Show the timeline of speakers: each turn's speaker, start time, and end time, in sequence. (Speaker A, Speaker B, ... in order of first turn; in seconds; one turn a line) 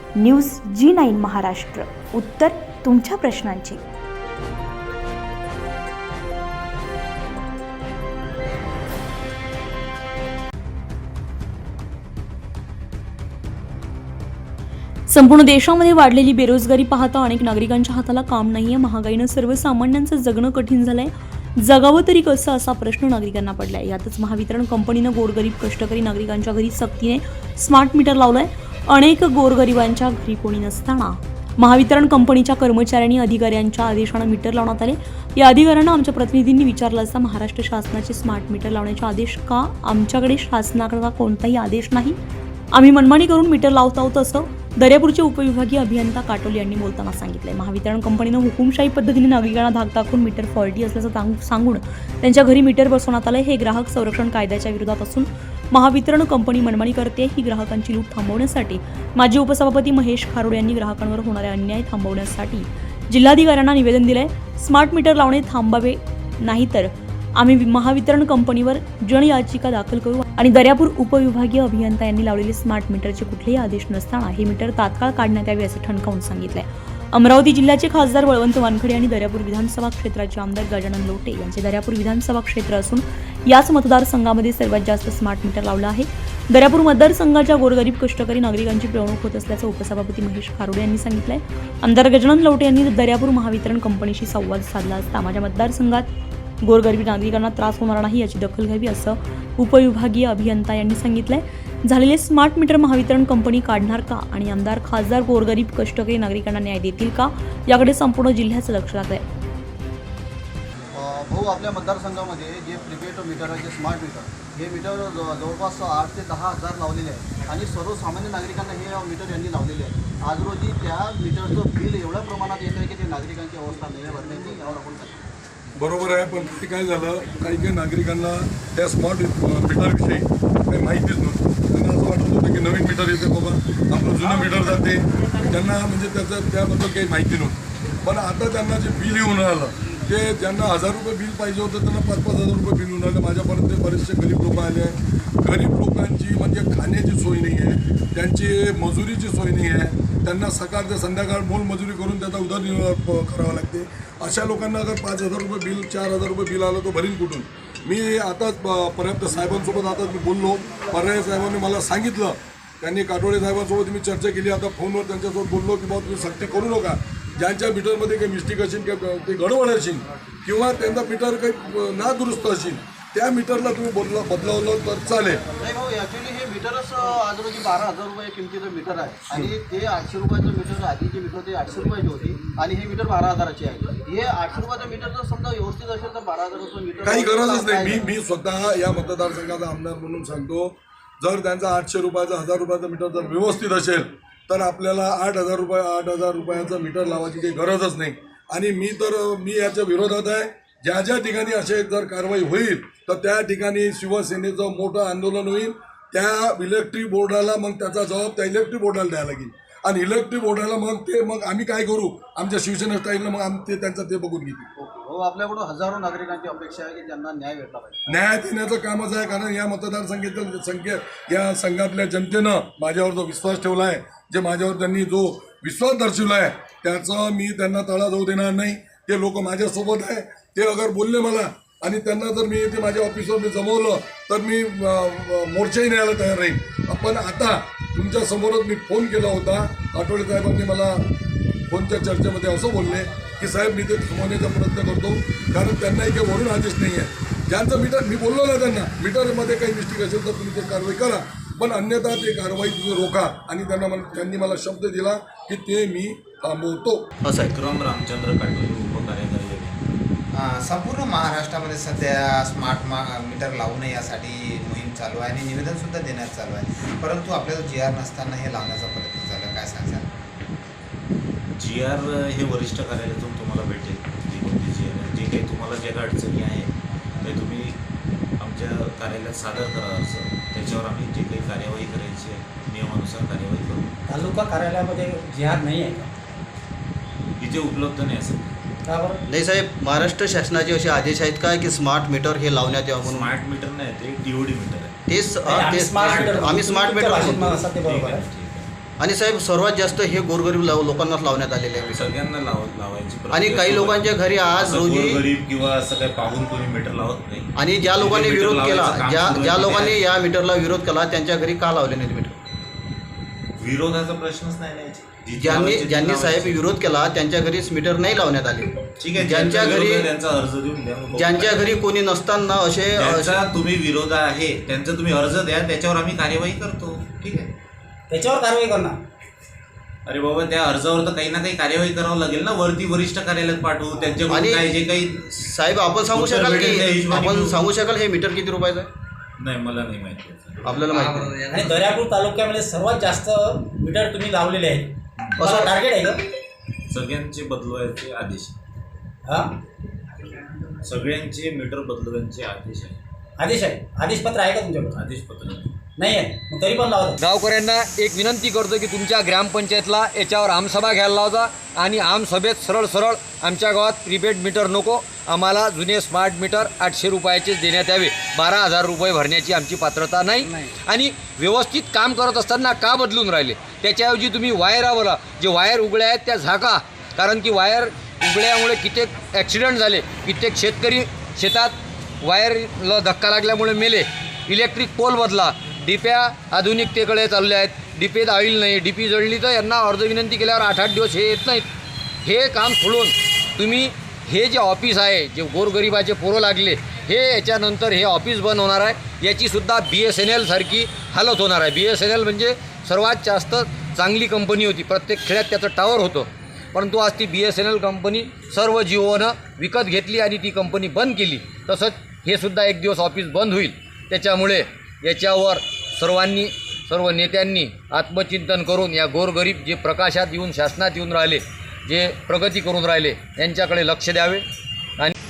Speaker A: 0.2-3.8
Speaker A: 15.1-42.2
Speaker A: 42.7-96.1
Speaker A: 96.6-109.2
Speaker B: 110.9-125.2
Speaker C: 125.8-175.4
Speaker B: 175.6-188.0
Speaker C: 187.0-214.7
Speaker B: 214.8-218.1
Speaker C: 218.1-241.0
Speaker C: 241.7-257.0
Speaker B: 257.2-257.6
Speaker D: 257.4-259.8
Speaker E: 260.3-270.2
Speaker D: 271.6-277.8
Speaker D: 278.4-284.0
Speaker F: 284.1-286.1
Speaker D: 287.4-288.6
Speaker F: 288.9-289.2
Speaker B: 289.3-293.3
Speaker D: 293.0-295.0
Speaker B: 295.1-297.6
Speaker F: 295.4-298.2
Speaker D: 296.0-296.4
Speaker D: 297.7-298.7
Speaker B: 299.0-302.1
Speaker D: 301.9-310.0
Speaker B: 303.3-305.2
Speaker B: 307.6-312.4
Speaker D: 313.6-316.8
Speaker B: 315.4-320.1
Speaker D: 319.0-321.8
Speaker B: 321.1-323.5
Speaker D: 322.9-327.5
Speaker F: 328.1-329.0
Speaker D: 330.1-335.3
Speaker B: 334.3-338.9
Speaker D: 336.1-337.6
Speaker D: 339.4-340.9
Speaker B: 340.6-341.5
Speaker F: 341.4-346.2
Speaker D: 345.2-345.5
Speaker B: 345.4-345.7
Speaker D: 346.9-348.5
Speaker F: 349.2-349.6
Speaker D: 350.8-353.0
Speaker F: 353.4-355.0
Speaker D: 354.9-355.7
Speaker F: 356.0-357.2
Speaker G: 357.2-391.7
Speaker G: 392.2-424.4